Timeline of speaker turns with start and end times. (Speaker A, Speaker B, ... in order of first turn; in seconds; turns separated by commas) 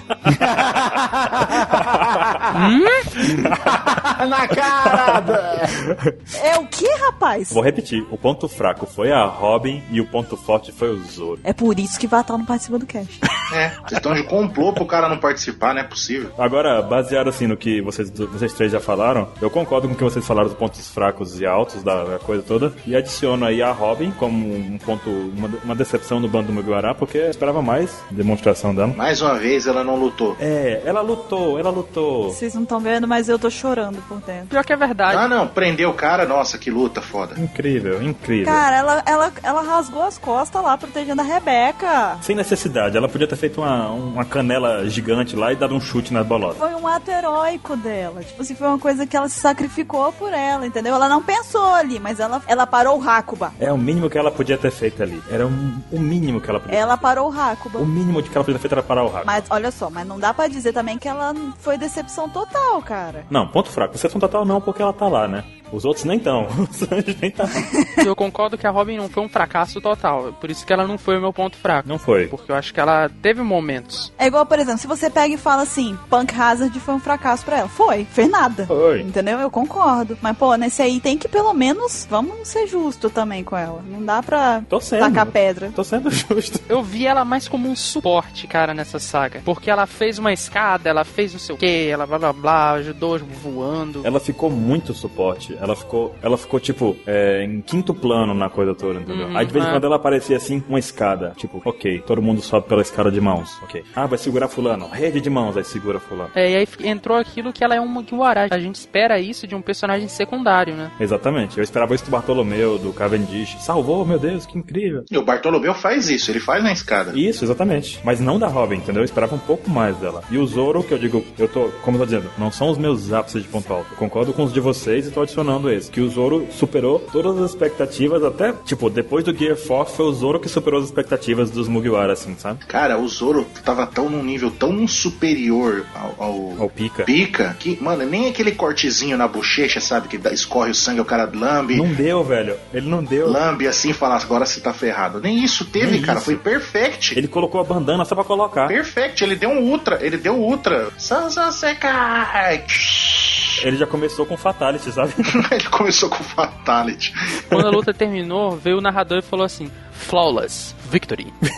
Speaker A: 0.3-0.9, Speaker B: 0.5-2.6, Speaker A: 1.5-2.2, Speaker C: 2.5-3.1, Speaker B: 3.2-5.7, Speaker A: 3.3-3.8, Speaker A: 4.8-6.2, Speaker D: 6.3-7.6, Speaker A: 7.5-11.4, Speaker D: 11.4-13.2, Speaker E: 13.5-16.3, Speaker A: 16.4-29.0, Speaker E: 28.9-30.4, Speaker A: 30.4-32.4, Speaker D: 32.3-34.5, Speaker C: 34.5-35.3, Speaker E: 35.1-37.4, Speaker A: 37.4-38.6, Speaker D: 38.4-42.2, Speaker A: 42.2-46.6, Speaker D: 46.6-53.6, Speaker A: 53.6-57.1, Speaker D: 56.7-57.9, Speaker A: 57.8-59.4, Speaker D: 59.2-63.3, Speaker A: 63.3-67.7, Speaker D: 67.7-68.0, Speaker C: 68.0-74.1, Speaker A: 71.8-72.3, Speaker D: 74.2-85.8, Speaker A: 78.7-79.1, Speaker A: 84.7-86.6, Speaker C: 86.7-94.1, Speaker A: 94.0-106.3, Speaker C: 99.1-99.8, Speaker C: 106.3-110.9, Speaker A: 111.0-115.1, Speaker E: 115.1-117.2, Speaker A: 117.1-132.6, Speaker E: 132.7-141.9, Speaker A: 136.6-137.1, Speaker A: 141.7-143.4, Speaker E: 143.2-147.2, Speaker A: 145.8-146.4, Speaker A: 147.1-148.8, Speaker E: 148.7-153.5, Speaker A: 153.6-155.4, Speaker E: 155.3-157.2, Speaker C: 157.5-161.3